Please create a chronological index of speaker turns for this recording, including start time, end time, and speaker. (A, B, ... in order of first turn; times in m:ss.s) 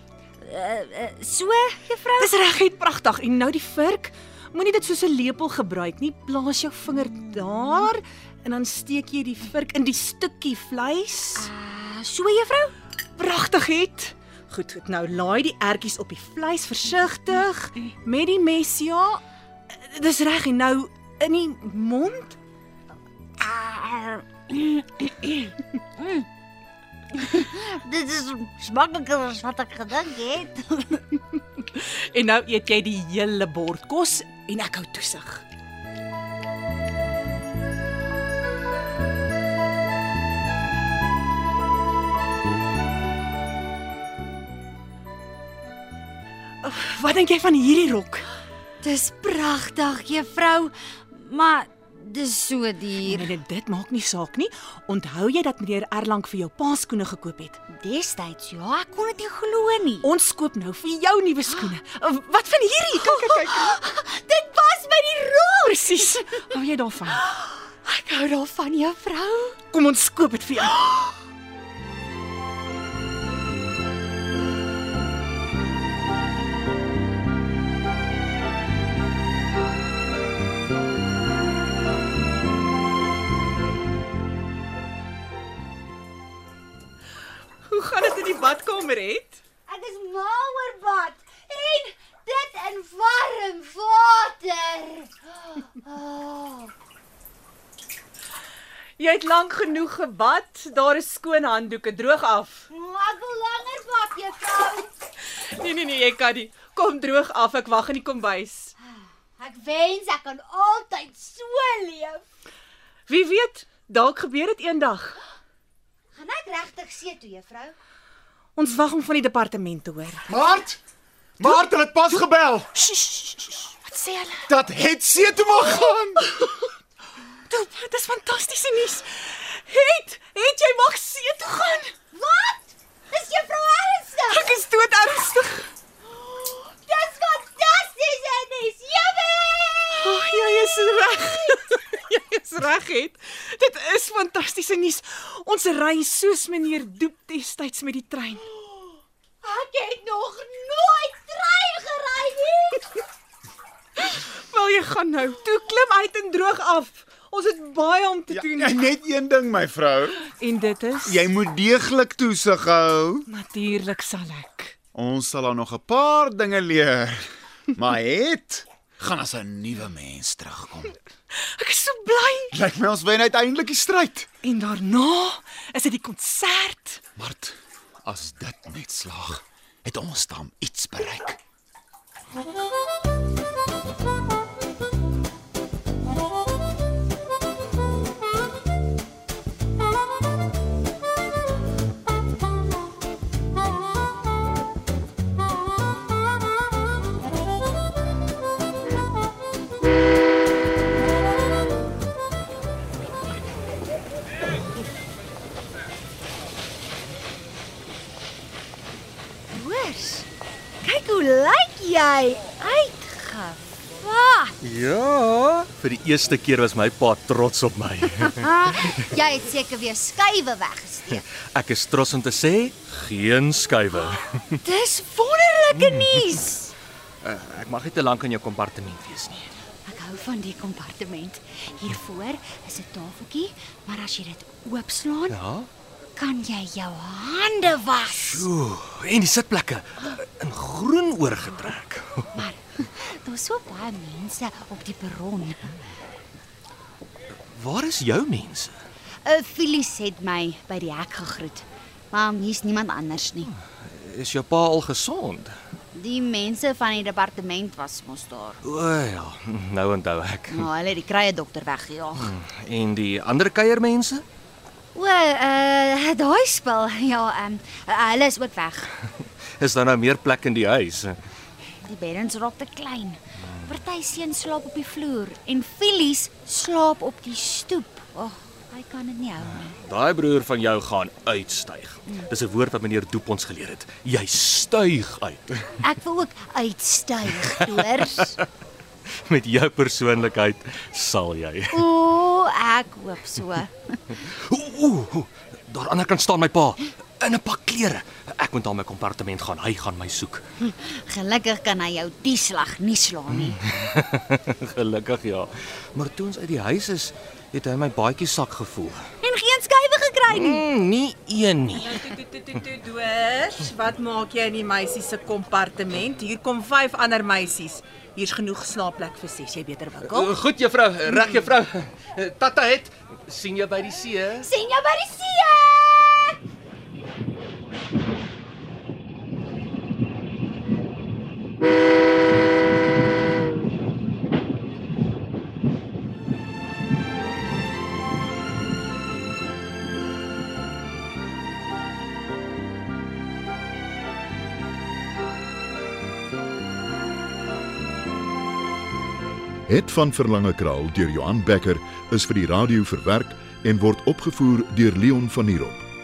0:00.4-0:02.3 A
0:02.2-0:11.5 B
0:07.0-0:07.9 A
0:11.4-0:12.7 A
0:13.2-0:22.4 B
0:23.4-0:26.3 A
0:27.1-0:31.0 A
0:31.6-0:35.4 B
0:46.6-0:48.3 B
0:48.8-0:53.3 A
0:53.0-0:57.6 B
0:57.7-1:00.1 A
1:00.0-1:03.8 B
1:02.9-1:06.4 A
1:05.6-1:07.2 B
1:07.1-1:09.6 A
1:09.7-1:10.8 B
1:27.7-1:29.4 B
1:29.7-1:36.7 A
1:39.0-1:42.7 B
1:42.7-1:44.9 A
1:45.3-1:48.7 B
1:48.9-1:52.2 A
1:53.1-1:55.2 B
1:56.2-1:57.7 A
1:58.6-2:00.3 B
2:00.3-2:00.8 C
2:01.4-2:02.7 C
2:02.7-2:04.5 B
2:04.5-2:06.5 C
2:07.5-2:11.9 B
2:12.1-2:14.6 A
2:14.3-2:15.7 B
2:16.2-2:20.6 A
2:19.9-2:28.4 B
2:29.4-2:32.8 A
2:34.0-2:38.8 B
2:38.3-2:40.2 C
2:40.3-2:41.2 B
2:41.0-2:43.3 C
2:43.3-2:44.7 B
2:44.9-2:50.9 C
2:51.3-2:52.5 B
2:52.5-2:54.3 C
2:54.4-2:57.0 B
2:57.2-3:01.4 C
3:29.5-3:30.3 A
3:30.8-3:34.6 A
3:34.6-3:38.5 D
3:38.2-3:41.2 A
3:41.1-3:44.4 D
3:44.5-3:46.7 A
3:45.7-3:46.2 D
3:47.2-3:49.5 D
3:49.8-3:55.4 A
3:55.3-3:55.7 D
3:56.2-3:58.5 A
3:58.1-4:02.4 D
4:02.3-4:05.8 A
4:07.3-4:08.7 D
4:09.2-4:13.5 A
4:13.4-4:15.6 D
4:15.9-4:18.6 A
4:18.6-4:20.7 D
4:20.5-4:22.3 A
4:22.2-4:24.2 D
4:24.9-4:28.9 A
4:29.6-4:31.2 D
4:31.8-4:39.8 A
4:39.4-4:45.7 D
4:45.8-4:48.4 A
4:47.3-4:48.3 D
4:49.2-4:51.8 D
4:51.7-4:54.0 A
4:54.2-5:00.4 D
5:00.6-5:03.6 A
5:03.3-5:09.0 D
5:09.2-5:10.6 A
5:10.3-5:12.1 D
5:12.0-5:20.4 B
5:20.0-5:24.5 D
5:24.4-5:26.4 A
5:49.6-5:55.8 E